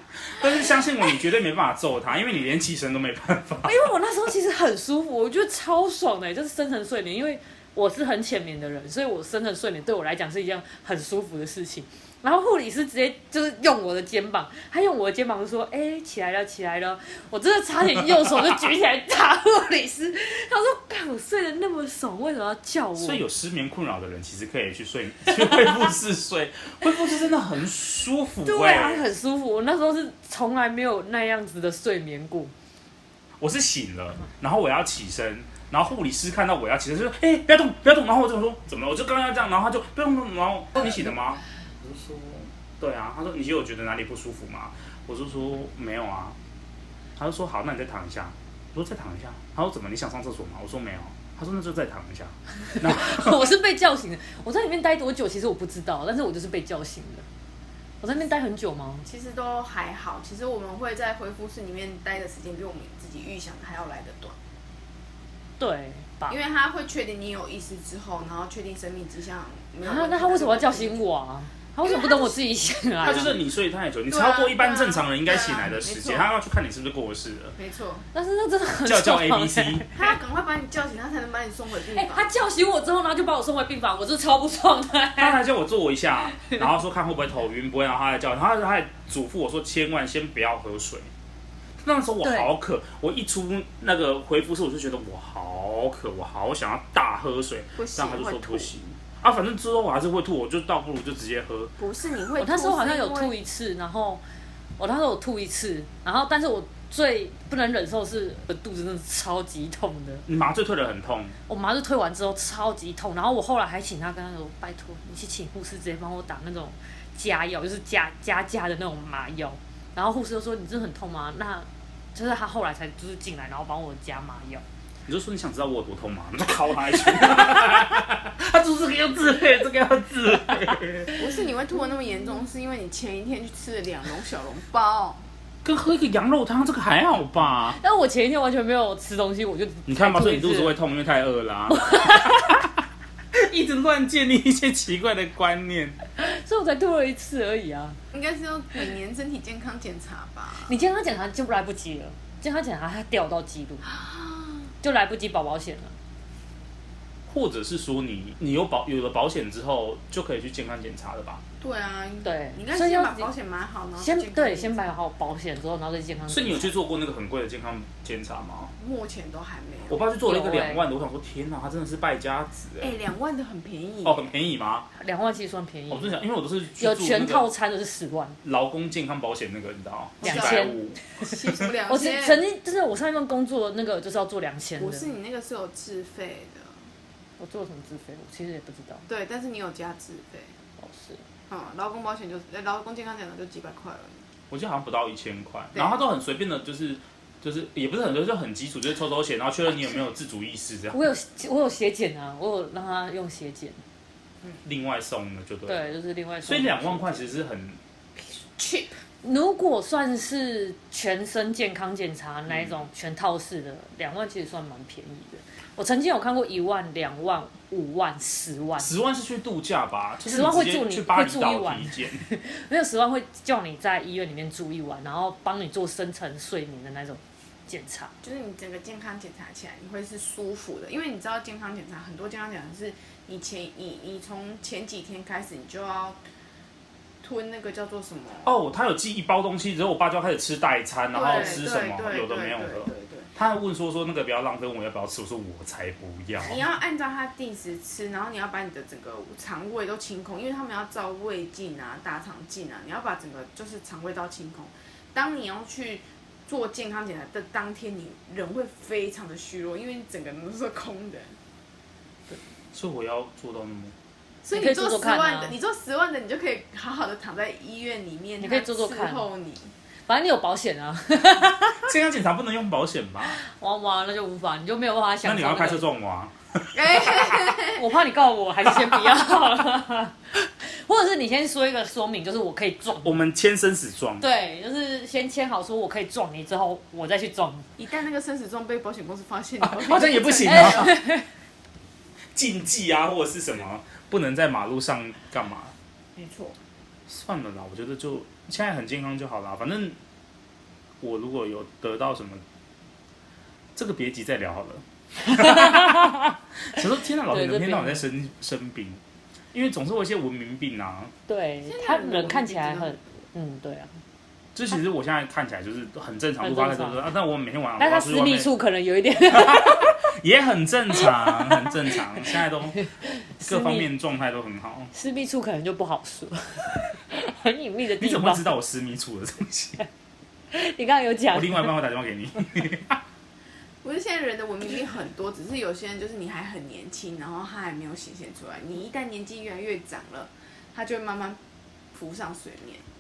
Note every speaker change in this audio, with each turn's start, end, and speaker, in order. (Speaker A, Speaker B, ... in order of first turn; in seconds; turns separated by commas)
Speaker A: 0.3-3.9, Speaker B: 3.6-23.2, Speaker A: 23.0-29.0, Speaker B: 28.4-32.5, Speaker A: 33.4-46.4, Speaker A: 47.2-53.5, Speaker B: 52.8-57.2, Speaker B: 58.0-59.0, Speaker C: 59.0-64.4, Speaker B: 65.6-66.4, Speaker C: 66.3-71.0, Speaker B: 69.8-73.3, Speaker C: 71.8-72.4, Speaker C: 73.0-73.4, Speaker A: 73.0-77.5, Speaker C: 74.1-76.3, Speaker C: 77.6-78.0, Speaker B: 78.1-80.2, Speaker A: 78.8-79.8, Speaker C: 80.0-82.3, Speaker B: 81.9-85.4, Speaker A: 85.2-91.1, Speaker B: 86.3-86.7, Speaker A: 91.8-101.7, Speaker B: 92.2-92.5, Speaker C: 97.7-98.7, Speaker C: 101.8-103.3, Speaker B: 102.4-104.2, Speaker B: 104.8-110.2, Speaker A: 110.3-111.3, Speaker B: 111.5-124.6, Speaker A: 125.1-131.1, Speaker C: 131.1-135.2, Speaker A: 135.6-137.8, Speaker B: 137.8-140.7, Speaker A: 139.9-142.7, Speaker B: 141.7-142.6, Speaker A: 143.3-146.0, Speaker B: 146.2-148.0, Speaker C: 148.1-150.7, Speaker B: 150.7-153.9, Speaker C: 154.0-154.7, Speaker B: 154.8-155.9, Speaker A: 157.3-161.4, Speaker C: 161.6-164.8, Speaker B: 162.2-163.3, Speaker B: 164.0-166.7, Speaker A: 166.3-168.7, Speaker C: 168.8-170.1, Speaker A: 169.9-172.9, Speaker B: 170.2-170.8, Speaker C: 172.8-174.2, Speaker A: 174.0-174.8, Speaker B: 174.9-176.2, Speaker A: 175.9-177.5, Speaker B: 176.8-178.4, Speaker A: 178.4-181.0, Speaker B: 180.2-180.8, Speaker C: 180.2-182.4, Speaker B: 181.8-185.1, Speaker C: 184.8-186.9, Speaker B: 187.4-189.1, Speaker C: 189.1-190.5, Speaker B: 190.8-191.2, Speaker C: 191.5-194.2, Speaker A: 194.5-201.0, Speaker B: 200.9-203.8, Speaker A: 204.6-205.9, Speaker B: 205.7-207.2, Speaker A: 206.4-207.8, Speaker C: 208.4-209.0, Speaker B: 209.2-218.9, Speaker A: 212.5-212.9, Speaker A: 218.8-222.2, Speaker B: 220.3-228.1, Speaker C: 228.2-236.2, Speaker C: 237.2-238.5, Speaker A: 238.4-246.6, Speaker C: 241.1-243.3, Speaker C: 246.4-261.4, Speaker A: 262.7-263.9, Speaker C: 264.4-269.7, Speaker B: 264.5-265.6, Speaker B: 268.4-269.2, Speaker B: 270.1-271.9, Speaker A: 271.8-273.4, Speaker B: 273.2-275.8, Speaker A: 275.2-277.1, Speaker C: 276.7-277.8, Speaker B: 277.6-283.2, Speaker A: 283.0-284.2, Speaker B: 284.2-287.7, Speaker C: 287.8-291.0, Speaker A: 289.6-290.9, Speaker B: 290.4-291.2, Speaker A: 292.3-295.7, Speaker C: 296.1-296.6, Speaker A: 297.1-300.0, Speaker A: 301.0-302.4, Speaker A: 303.7-309.0, Speaker B: 305.3-306.2, Speaker B: 306.8-308.0, Speaker A: 309.5-311.1, Speaker B: 311.3-313.9, Speaker C: 311.6-313.0, Speaker A: 314.5-318.5, Speaker B: 316.4-317.1, Speaker B: 317.8-320.0, Speaker A: 319.3-322.8, Speaker B: 321.0-323.9, Speaker A: 323.4-324.9, Speaker B: 324.9-328.5, Speaker A: 328.0-329.8, Speaker B: 330.5-331.7, Speaker A: 331.3-333.0, Speaker C: 333.8-341.4, Speaker C: 341.9-342.8